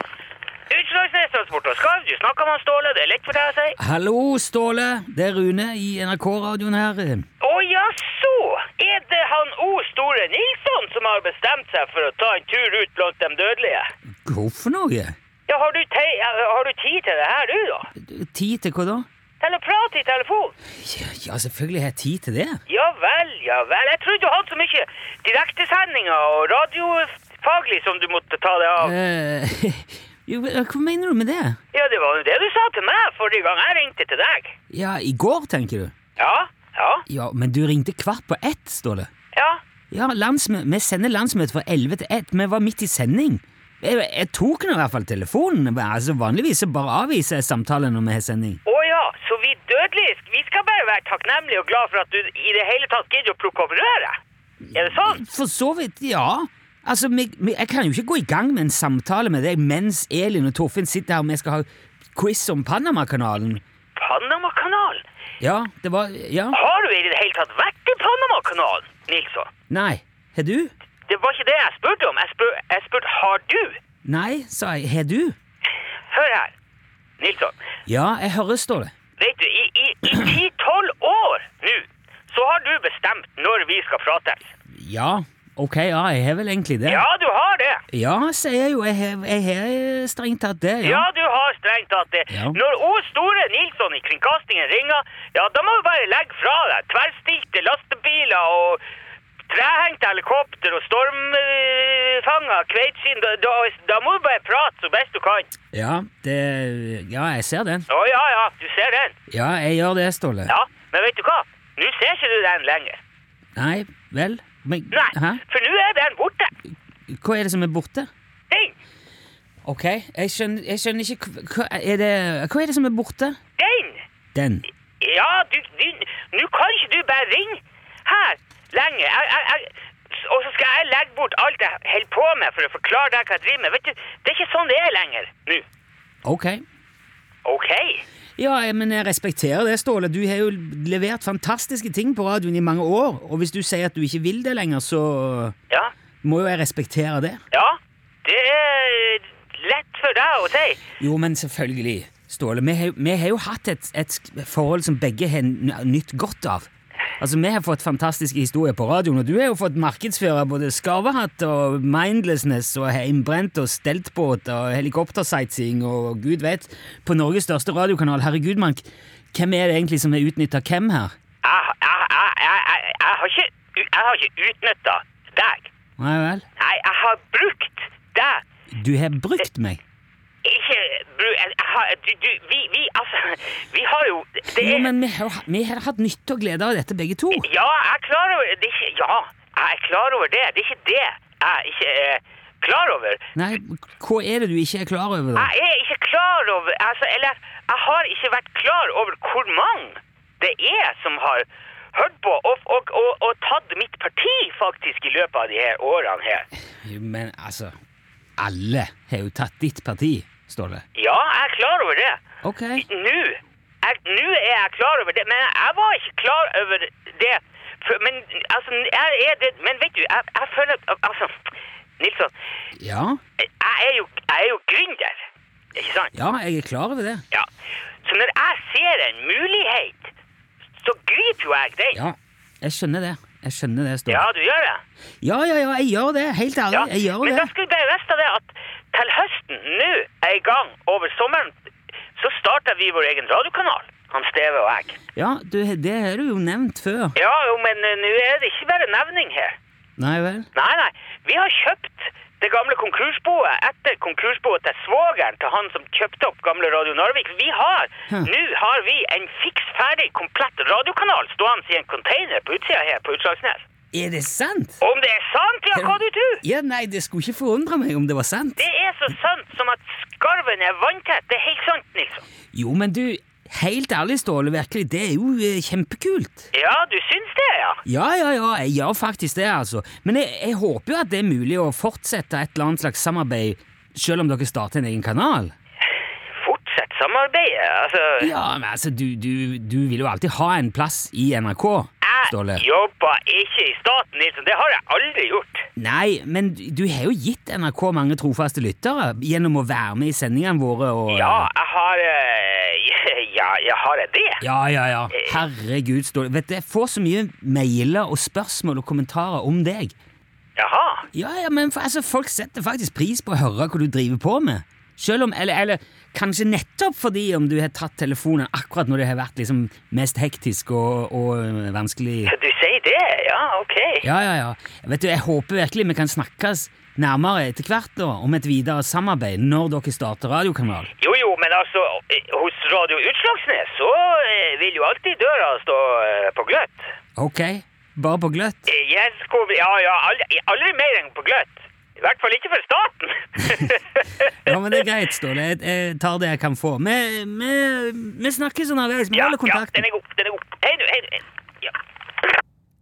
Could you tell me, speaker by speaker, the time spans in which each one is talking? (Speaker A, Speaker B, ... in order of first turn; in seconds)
Speaker A: 0.7-3.8, 7.4-13.9, 15.5-17.9, 19.4-20.6, 22.7-28.9, 31.7-34.5, 36.2-37.0, 39.3-39.6, 48.6-54.2, 54.7-55.2, 64.0-65.0, 66.5-69.5, 71.1-73.8, 76.1-76.5, 77.2-77.5, 79.2-84.5, 86.8-87.8, 90.8-98.8, 99.5-105.5, 107.9-109.1, 110.5-113.0, 114.9-116.5, 123.6-124.0, 125.0-135.6, 137.4-138.0, 147.5-150.8, 171.4-175.7, 176.6-178.4, 180.4-184.9, 187.3-193.2, 195.3-206.5, 210.9-212.2, 212.8-221.3, 222.0-222.3, 223.4-225.2, 225.7-226.1, 228.0-230.1, 230.8-232.0, 234.1-234.8, 236.7-241.6, 242.2-245.0, 247.1-249.6, 250.5-263.6, 264.8-266.4, 268.6-272.2, 276.5-277.8, 286.4-288.3, 292.0-295.6, 301.1-304.4, 305.1-305.4, 310.6-311.1, 322.3-324.0, 331.0-336.9, 338.7-344.6, 349.1-351.8
Speaker B: 3.8-7.2, 14.2-15.2, 17.9-19.1, 20.7-22.6, 28.8-31.6, 34.7-35.9, 37.1-39.1, 39.9-48.6, 54.9-63.6, 65.4-66.6, 69.7-70.7, 74.0-75.3, 77.9-78.9, 84.7-87.0, 87.9-91.0, 92.3-92.6, 105.7-107.9, 109.3-110.5, 113.5-115.4, 117.1-118.1, 119.6-123.4, 124.3-124.7, 136.2-136.6, 138.4-145.5, 146.2-147.4, 150.9-171.1, 176.0-176.4, 178.7-179.8, 184.5-187.5, 193.3-195.5, 206.8-207.7, 208.4-210.8, 212.4-212.8, 222.8-223.2, 226.1-227.2, 231.9-234.2, 235.2-237.5, 245.2-247.2, 250.0-250.5, 263.9-264.8, 265.7-268.6, 272.5-276.5, 277.9-285.5, 288.2-292.6, 295.8-301.5, 304.4-309.9, 311.1-322.3, 324.0-330.9, 337.1-338.7, 344.4-349.8